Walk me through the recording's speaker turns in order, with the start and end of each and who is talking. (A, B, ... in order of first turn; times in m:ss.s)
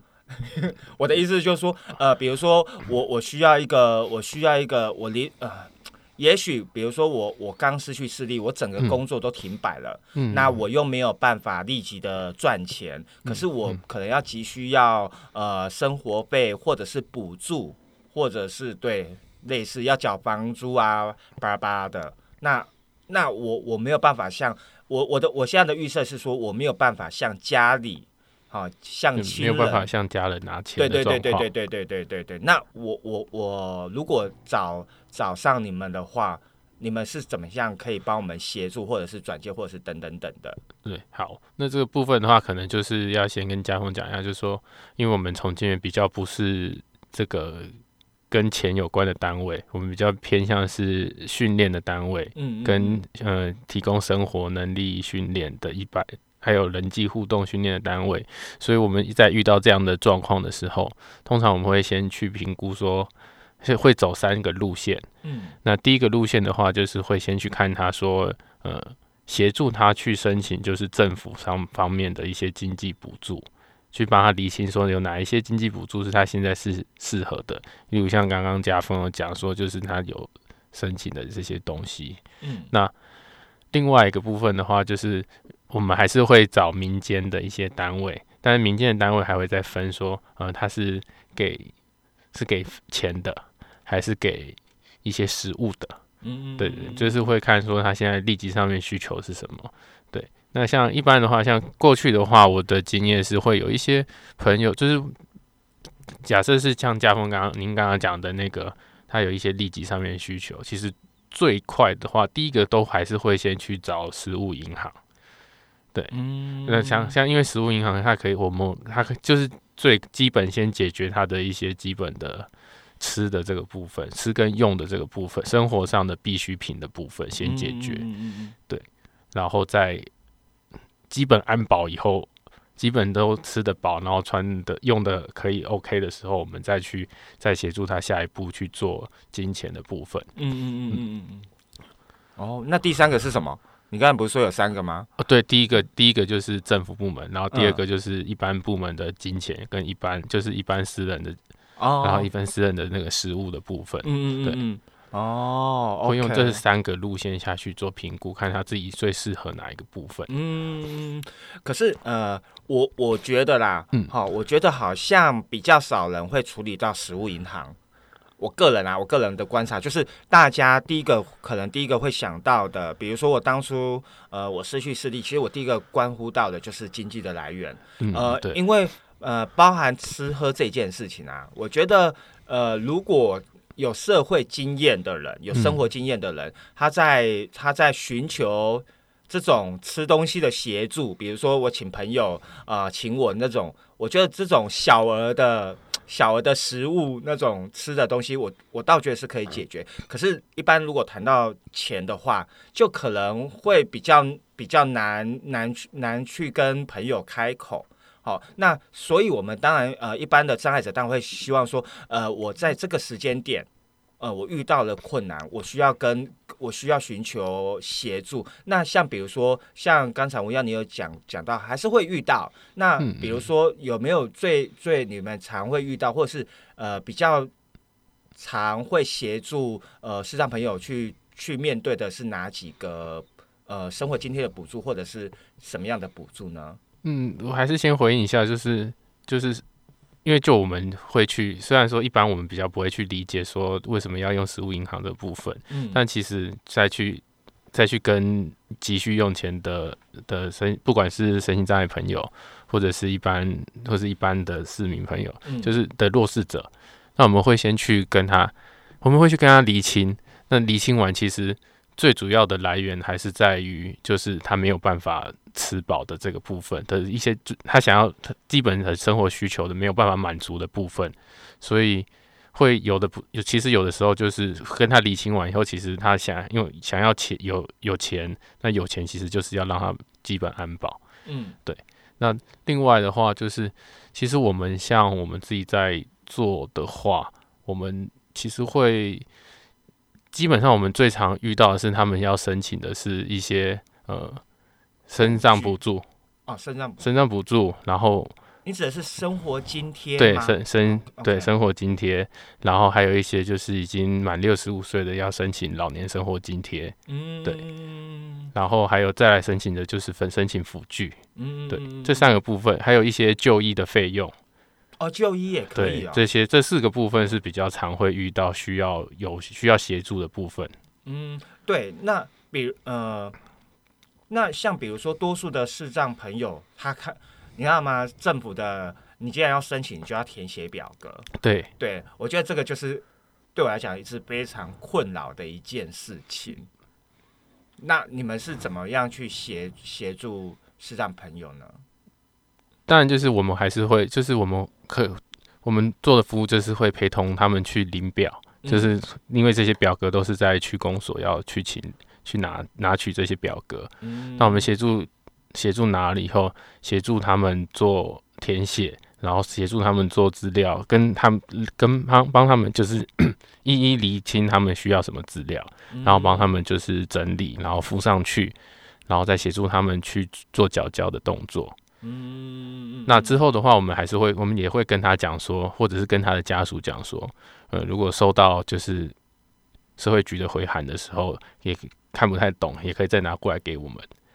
0:00.4-0:29.9 A
0:10.1-0:10.6 B
0:13.2-0:13.8 B
0:29.1-0:31.5 B
0:30.8-0:40.6 A
0:40.8-0:47.8 B
0:48.3-1:05.0 B
0:52.3-0:53.0 A
1:05.2-1:05.6 A
1:05.6-1:22.9 B
1:22.4-1:22.7 A
1:23.7-1:31.7 B
1:32.3-1:36.0 B
1:36.2-1:37.2 A
1:36.6-1:45.2 B
1:46.2-1:55.0 B
1:56.1-1:57.1 A
1:56.6-2:08.0 B
2:07.4-2:08.5 A
2:08.7-2:10.1 B
2:11.1-2:20.3 B
2:20.4-2:21.5 A
2:22.4-2:25.1 A
2:25.2-2:31.4 B
2:27.5-2:27.8 A
2:31.8-2:32.3 A
2:32.0-2:34.6 B
2:34.0-2:36.6 A
2:36.0-2:40.3 B
2:40.3-2:47.8 A
2:48.4-3:33.7 A
2:58.0-2:58.6 B
3:05.5-3:05.8 B
3:34.2-3:47.5 A
3:43.0-3:43.4 B
3:48.4-3:56.8 A
3:57.0-3:59.6 B
4:00.2-4:41.0 B
4:05.7-4:06.0 A
4:15.4-4:15.7 A
4:41.2-4:41.6 A
4:41.6-4:49.2 B
4:50.3-4:54.4 B
4:55.1-4:56.0 B
4:55.2-4:55.7 A
4:56.5-4:57.1 A
4:57.0-4:58.3 B
4:58.6-5:01.5 A
5:00.2-5:07.6 B
5:07.1-5:08.5 A
5:08.5-5:14.3 B
5:11.4-5:12.3 A
5:15.0-5:16.2 A
5:15.7-5:20.7 B
5:21.0-5:23.4 A
5:24.3-5:36.7 A
5:31.4-5:31.7 B
5:37.8-5:41.8 A
5:42.9-6:08.6 B
5:48.6-5:48.9 A
5:54.0-5:54.7 A
6:05.9-6:06.5 A
6:09.1-6:11.7 B
6:12.0-6:13.4 A
6:13.1-6:19.1 B
6:20.0-6:24.1 B